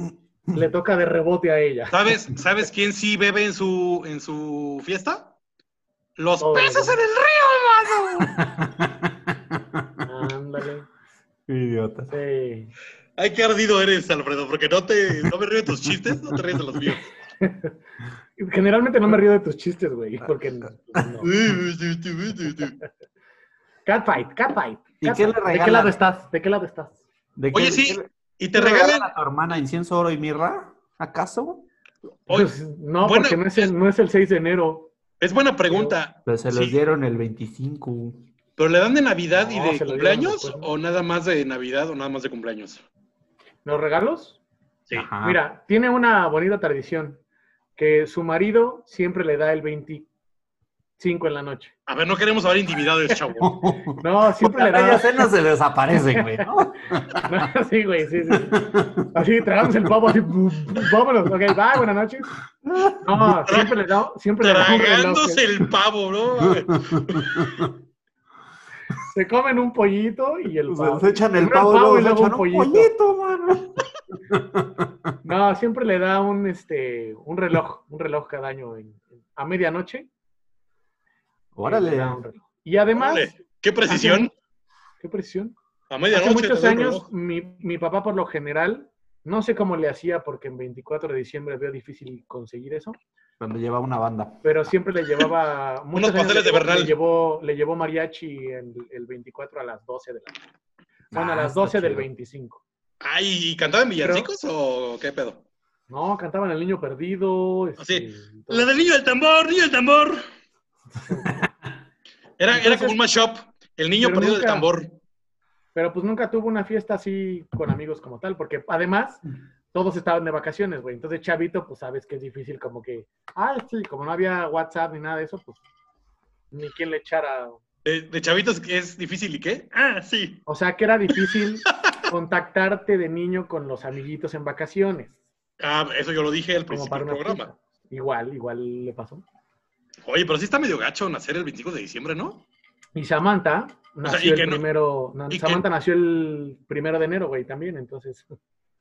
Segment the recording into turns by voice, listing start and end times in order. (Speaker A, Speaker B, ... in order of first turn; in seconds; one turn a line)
Speaker A: 0.5-2.0
Speaker B: 1.9-5.3
Speaker B: 6.2-8.4
Speaker A: 6.4-7.0
Speaker C: 8.3-10.1
Speaker A: 10.1-10.9
Speaker C: 11.5-12.1
Speaker A: 12.1-12.7
Speaker B: 13.2-17.1
Speaker C: 15.8-16.4
Speaker A: 17.4-17.7
Speaker A: 18.4-21.3
Speaker B: 21.2-22.8
Speaker A: 23.9-27.0
Speaker C: 25.0-26.0
Speaker C: 27.4-31.7
Speaker B: 27.5-29.1
Speaker B: 32.3-33.7
Speaker A: 32.3-34.9
Speaker B: 35.2-36.8
Speaker A: 35.7-36.0
Speaker C: 36.3-38.3
Speaker B: 38.6-42.8
Speaker A: 39.3-40.7
Speaker A: 43.6-44.4
Speaker C: 44.9-45.4
Speaker A: 45.2-47.2
Speaker A: 47.8-50.1
Speaker A: 51.0-51.7
Speaker B: 51.9-53.6
Speaker C: 53.4-57.4
Speaker A: 54.0-55.3
Speaker A: 56.1-56.5
Speaker A: 57.2-62.3
Speaker C: 58.5-59.1
Speaker C: 62.6-63.4
Speaker A: 63.0-65.4
Speaker B: 63.5-63.8
Speaker B: 64.4-67.5
Speaker C: 66.9-67.7
Speaker A: 69.1-72.9
Speaker C: 70.7-75.1
Speaker A: 75.2-80.1
Speaker C: 81.5-82.2
Speaker A: 81.6-83.3
Speaker B: 82.9-84.3
Speaker A: 83.9-84.3
Speaker A: 85.0-85.5
Speaker B: 85.9-87.1
Speaker A: 86.1-93.0
Speaker C: 93.4-94.6
Speaker A: 94.4-100.4
Speaker B: 96.0-97.0
Speaker A: 101.1-102.6
Speaker C: 101.1-102.1
Speaker B: 103.0-105.4
Speaker A: 104.0-104.3
Speaker A: 105.9-108.7
Speaker B: 107.8-110.2
Speaker A: 111.0-111.4
Speaker B: 112.4-115.0
Speaker A: 112.5-113.0
Speaker A: 114.0-114.7
Speaker A: 115.8-125.6
Speaker A: 126.5-127.6
Speaker B: 127.8-130.5
Speaker A: 130.5-135.2
Speaker B: 135.6-137.5
Speaker A: 136.7-139.2
Speaker B: 140.1-142.4
Speaker A: 143.0-148.3
Speaker B: 144.0-144.7
Speaker B: 145.3-145.7